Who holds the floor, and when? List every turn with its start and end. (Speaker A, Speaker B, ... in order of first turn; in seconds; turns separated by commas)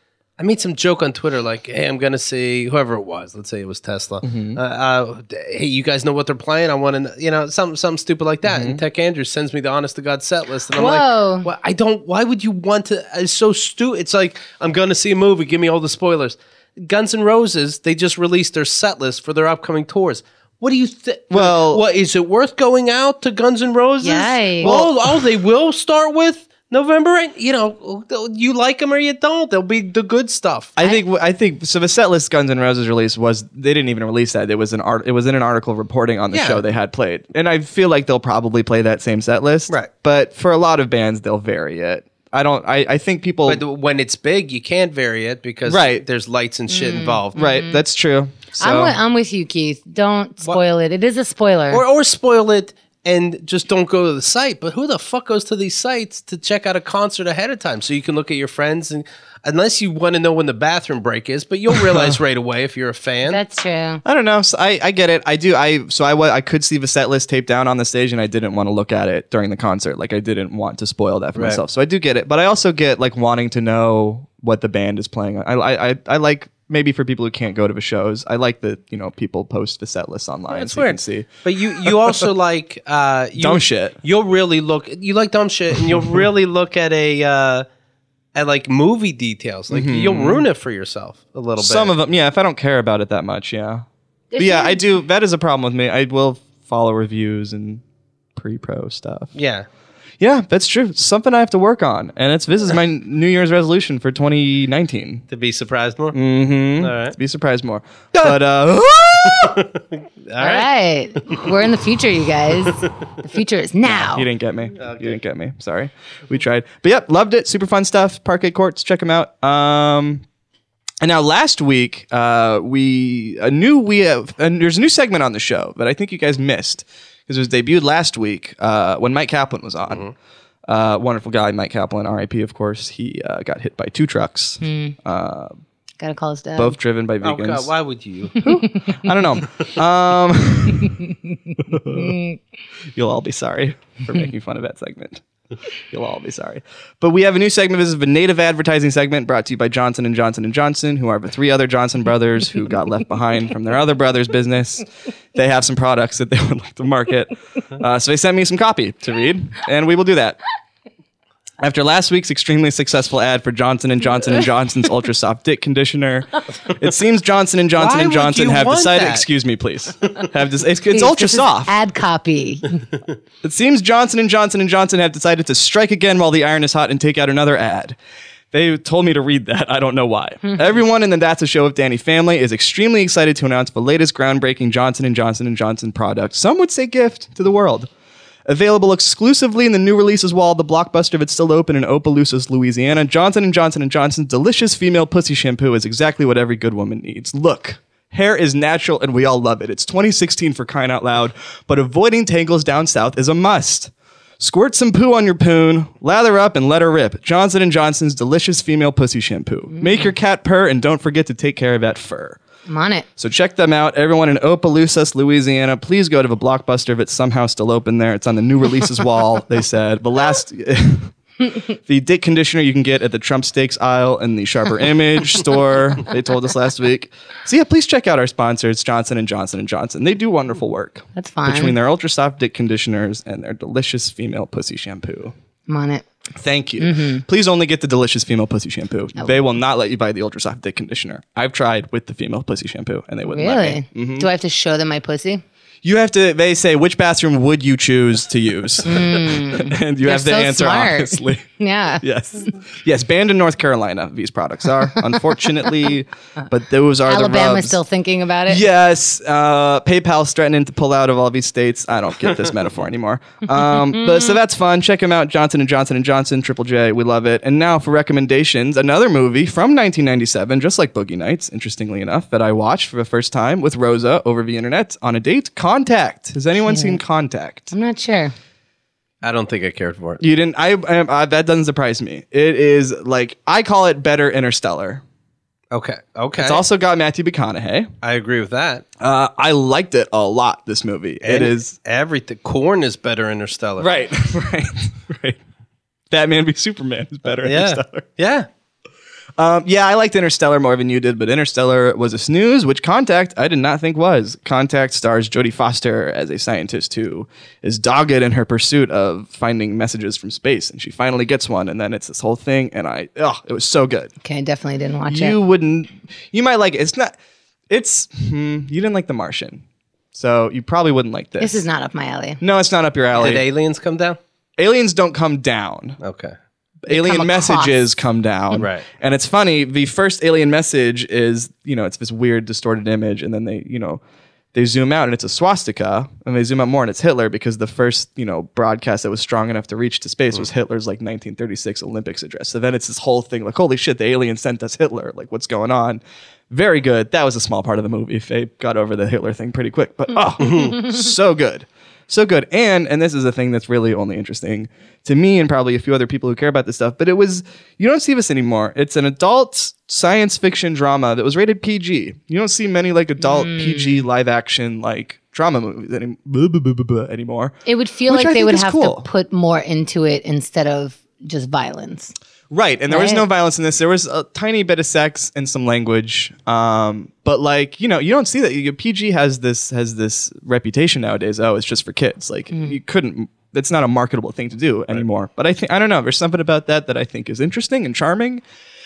Speaker A: 0.4-30.8, Speaker B: 4.2-4.6, Speaker B: 8.4-8.8, Speaker C: 10.7-11.5, Speaker B: 21.3-21.8, Speaker C: 24.0-24.7, Speaker B: 24.6-25.1, Speaker B: 30.8-43.6, Speaker A: 36.3-36.6, Speaker A: 43.5-47.4, Speaker B: 45.7-46.0, Speaker C: 46.7-47.8, Speaker B: 47.3-49.0, Speaker C: 48.6-51.8, Speaker A: 51.7-63.4, Speaker B: 61.7-62.2, Speaker C: 63.2-64.0, Speaker B: 64.0-82.3, Speaker A: 71.3-71.6, Speaker A: 80.5-87.7, Speaker B: 83.4-84.0, Speaker A: 88.3-91.9, Speaker B: 89.7-90.4, Speaker B: 91.6-93.8, Speaker C: 94.3-94.8, Speaker B: 94.4-97.8, Speaker B: 98.3-99.3, Speaker A: 99.3-99.7, Speaker B: 100.2-105.2, Speaker A: 105.3-106.2, Speaker B: 106.1-109.6, Speaker A: 106.8-107.2, Speaker A: 109.2-110.7, Speaker C: 110.4-114.3, Speaker A: 111.3-111.5, Speaker B: 113.8-120.2, Speaker A: 114.8-115.2, Speaker B: 121.0-130.0, Speaker B: 130.7-135.6, Speaker C: 134.6-134.9, Speaker C: 136.0-136.8, Speaker B: 136.6-137.7, Speaker A: 137.2-138.3, Speaker C: 138.4-139.0, Speaker B: 138.4-141.0, Speaker B: 141.6-142.2, Speaker C: 141.8-142.4, Speaker B: 142.9-145.2, Speaker B: 145.9-160.4, Speaker B: 161.6-171.7, Speaker A: 167.8-169.2, Speaker C: 170.9-172.8, Speaker B: 173.4-178.0, Speaker B: 178.5-187.9, Speaker B: 188.4-212.4, Speaker C: 209.8-210.1, Speaker C: 212.7-213.1, Speaker B: 213.2-235.3, Speaker C: 231.2-231.8, Speaker C: 235.7-236.1, Speaker B: 236.3-244.3, Speaker C: 236.8-237.2, Speaker C: 243.3-245.4, Speaker B: 245.8-251.4, Speaker C: 248.8-252.0, Speaker B: 252.0-257.8, Speaker C: 257.1-258.6, Speaker B: 258.5-277.7, Speaker C: 276.7-277.0, Speaker C: 277.7-278.3, Speaker A: 279.2-280.2, Speaker B: 280.2-285.0, Speaker A: 285.7-286.6, Speaker B: 286.4-287.9, Speaker A: 288.0-288.9, Speaker B: 289.0-291.7, Speaker A: 291.2-293.9, Speaker B: 293.8-295.4, Speaker B: 296.1-298.1, Speaker A: 297.4-298.5, Speaker B: 299.4-314.1, Speaker C: 314.2-315.4, Speaker B: 315.1-317.2, Speaker B: 317.7-321.6, Speaker C: 321.4-322.4, Speaker B: 322.4-323.5, Speaker A: 323.1-324.2, Speaker B: 324.6-326.0, Speaker A: 326.0-326.3, Speaker B: 326.8-334.0, Speaker C: 326.9-327.8, Speaker A: 328.5-328.9, Speaker B: 334.5-367.5, Speaker C: 363.2-364.0, Speaker C: 367.6-372.1, Speaker B: 368.1-369.0, Speaker B: 372.5-388.4, Speaker C: 372.9-373.2